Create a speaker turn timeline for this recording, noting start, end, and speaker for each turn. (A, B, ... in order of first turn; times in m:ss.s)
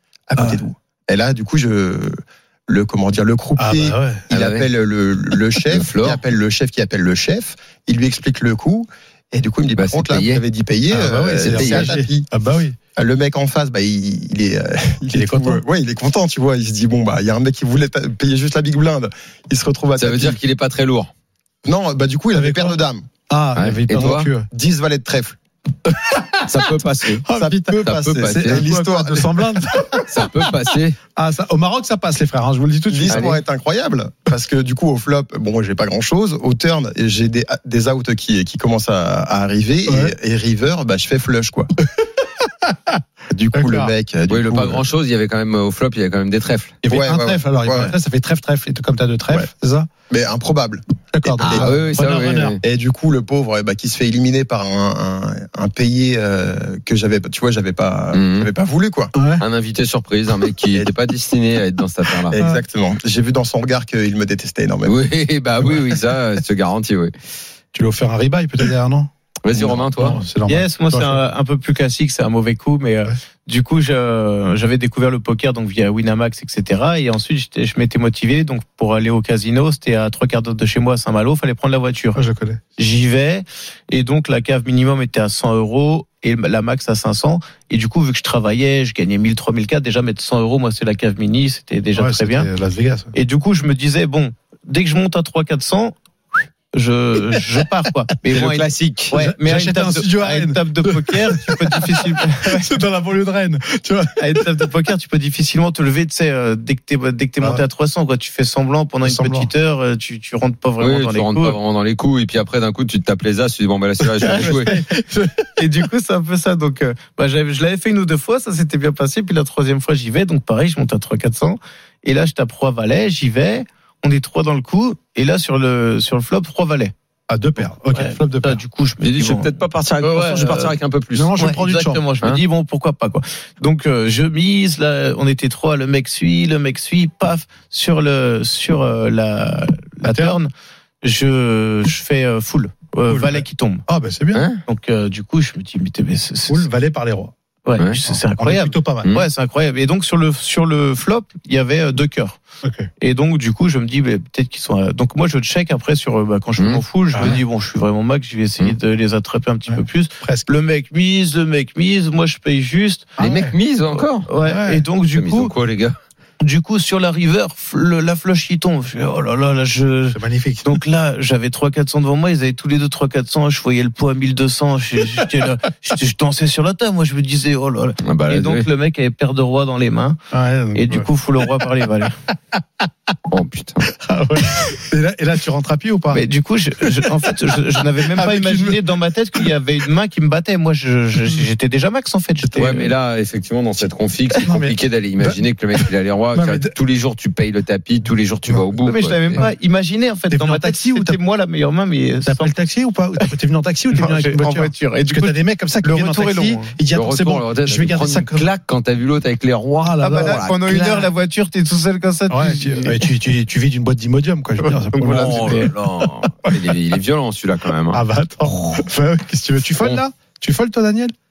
0:00.3-0:12.3 A
0:00.4-0:00.6 B
0:03.6-0:04.2 B
0:04.3-0:04.7 C
0:05.6-0:06.2 C
0:09.8-0:10.4 C
0:10.9-0:12.8 B
0:11.5-0:12.0 C
0:13.0-0:20.4 A
0:15.1-0:15.6 B
0:20.0-0:21.1 C
0:21.6-0:23.1 A
0:22.3-0:24.5 B
0:23.6-0:24.3 C
0:24.0-0:25.4 A
0:26.0-0:26.6 B
0:26.5-0:27.3 C
0:27.2-0:30.3 B
0:27.3-0:30.0 A
0:27.8-0:28.7 C
0:30.1-0:31.0 C
0:31.2-0:33.3 B
0:32.9-0:41.7 A
0:33.1-0:33.4 C
0:39.9-0:40.2 B
0:43.3-0:44.8 A
0:43.5-0:43.9 B
0:44.3-0:46.8 C
0:46.8-0:49.9 B
0:46.9-0:47.9 A
0:50.1-0:50.8 A
0:51.1-0:52.6 B
0:51.4-0:51.7 A
0:51.4-0:52.6 C
0:52.6-0:59.1 A
0:58.1-0:58.5 C
0:59.2-0:59.4 B
0:59.4-1:02.4 C
1:02.2-1:05.0 A
1:04.8-1:07.1 C
1:07.7-1:11.2 B
1:09.4-1:10.2 C
1:10.5-1:22.2 D
1:22.2-1:22.6 B
1:22.8-1:32.5 D
1:32.0-1:33.1 B
1:33.1-1:36.0 D
1:36.7-1:42.7 D
1:38.3-1:39.1 C
1:39.1-1:44.7 B
1:44.2-1:51.6 D
1:49.0-1:49.5 B
1:50.8-1:54.8 C
1:54.0-1:55.5 B
1:55.6-2:06.9 D
2:07.3-2:08.6 B
2:07.6-2:09.5 D
2:09.0-2:11.4 C
2:10.0-2:10.7 D
2:11.1-2:12.0 B
2:11.4-2:20.5 D
2:20.0-2:20.4 B
2:21.0-2:23.8 D
2:23.1-2:24.4 B
2:24.3-2:24.6 C
2:24.7-2:26.7 D
2:26.5-2:27.3 B
2:27.7-2:32.4 D
2:28.3-2:29.1 B
2:29.0-2:29.3 C
2:32.6-2:32.9 B
2:33.0-2:43.1 D
2:36.6-2:36.8 C
2:37.1-2:37.4 B
2:39.7-2:40.5 B
2:43.2-2:43.6 B
2:43.2-2:44.3 C
2:44.3-2:45.5 D
2:44.4-2:44.8 B
2:45.1-2:46.0 C
2:46.4-3:00.2 D
2:50.1-2:50.8 B
2:58.0-2:58.7 C
3:00.3-3:01.1 B
3:00.7-3:02.2 D
3:03.3-3:03.8 C
3:04.0-3:06.2 B
3:06.1-3:12.9 D
3:08.0-3:08.8 B
3:12.6-3:19.5 C
3:14.5-3:16.7 B
3:18.8-3:22.5 D
3:20.3-3:21.2 B
3:22.3-3:28.4 B
3:23.9-3:26.7 D
3:26.9-3:30.9 C
3:29.8-3:31.0 B
3:30.0-3:33.1 D
3:32.3-3:35.7 B
3:34.6-3:35.7 D
3:35.0-3:38.0 C
3:36.4-3:36.8 B
3:37.9-3:41.2 B